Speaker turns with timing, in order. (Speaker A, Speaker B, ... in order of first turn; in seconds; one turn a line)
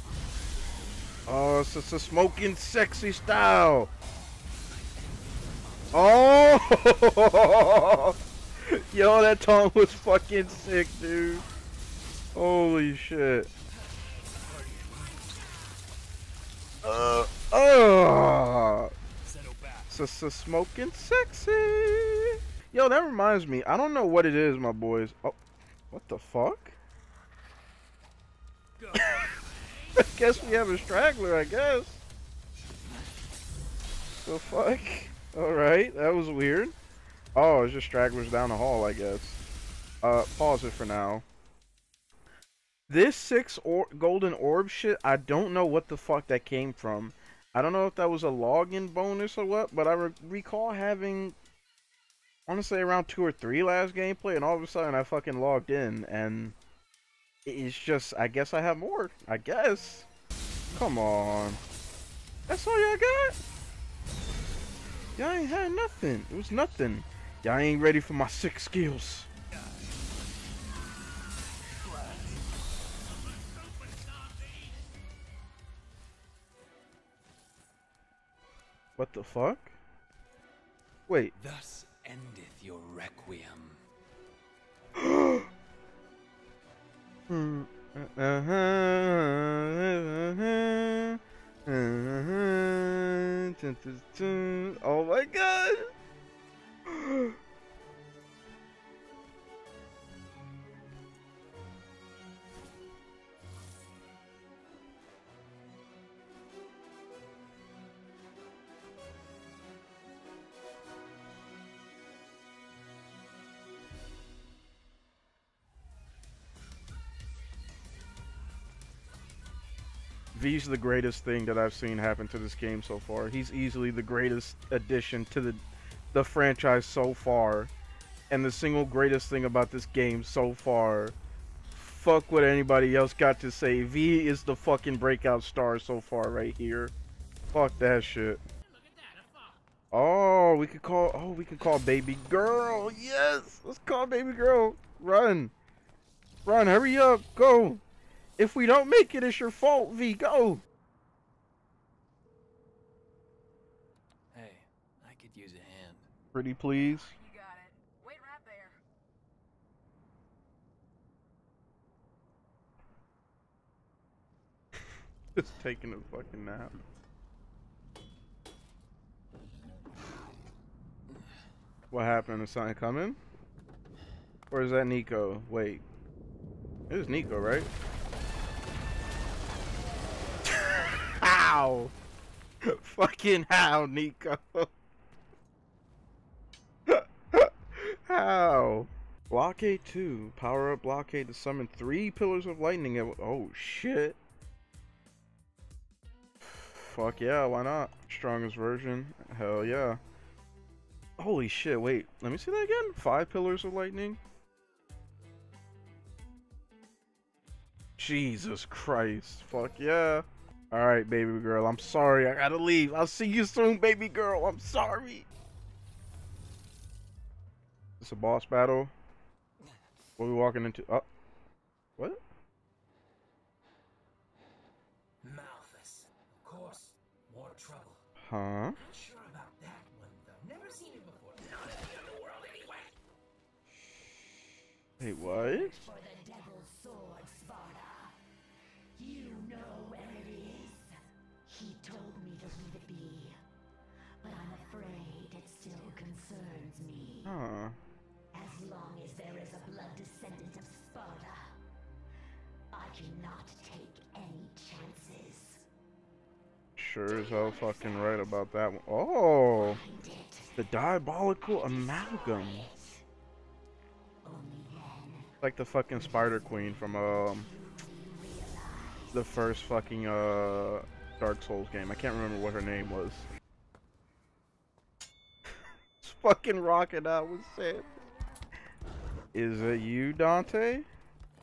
Speaker A: 1.2-3.9
Speaker A: 5.9-11.4
Speaker A: 12.3-13.5
Speaker B: 14.4-15.3
Speaker A: 16.8-18.9
Speaker B: 19.3-19.9
Speaker A: 19.9-25.4
Speaker A: 25.9-26.8
Speaker B: 28.8-30.7
Speaker A: 28.9-29.3
Speaker A: 29.9-32.0
Speaker A: 34.1-36.7
Speaker A: 37.3-39.4
Speaker A: 40.0-41.2
Speaker A: 42.9-51.4
Speaker A: 52.5-56.5
Speaker A: 57.4-60.1
Speaker A: 60.7-61.6
Speaker A: 62.5-63.4
Speaker A: 65.2-69.3
Speaker B: 71.8-72.3
Speaker A: 79.0-79.8
Speaker A: 81.1-81.3
Speaker B: 81.4-83.8
Speaker A: 84.9-85.5
Speaker A: 87.3-95.9
Speaker A: 96.8-97.4
Speaker A: 120.3-125.6
Speaker A: 126.1-127.7
Speaker A: 128.3-131.2
Speaker A: 131.7-136.9
Speaker A: 137.5-138.4
Speaker C: 138.9-139.6
Speaker A: 139.9-145.5
Speaker A: 146.4-147.8
Speaker A: 148.4-150.6
Speaker B: 154.3-156.1
Speaker A: 156.3-157.1
Speaker D: 156.8-158.8
Speaker A: 165.3-166.8
Speaker A: 171.9-173.2
Speaker A: 174.5-175.8
Speaker A: 176.9-177.7
Speaker A: 180.4-181.9
Speaker A: 182.6-184.7
Speaker A: 186.8-194.2
Speaker A: 196.4-200.0
Speaker A: 201.2-204.2
Speaker A: 208.0-215.3
Speaker A: 218.0-218.9
Speaker A: 220.2-221.1
Speaker C: 225.2-228.0
Speaker A: 228.2-228.8
Speaker C: 228.8-232.9
Speaker A: 235.0-235.7
Speaker E: 235.2-238.2
Speaker E: 239.0-243.4
Speaker E: 244.2-247.3
Speaker A: 247.2-247.8
Speaker E: 248.3-251.6
Speaker E: 252.7-255.7
Speaker A: 256.8-259.8
Speaker E: 257.1-258.4
Speaker E: 259.6-260.8
Speaker A: 260.6-262.7
Speaker E: 261.4-263.0
Speaker E: 264.2-265.3
Speaker A: 265.4-267.5
Speaker E: 266.1-269.2
Speaker A: 269.1-273.3
Speaker A: 276.0-277.9
Speaker A: 279.3-280.9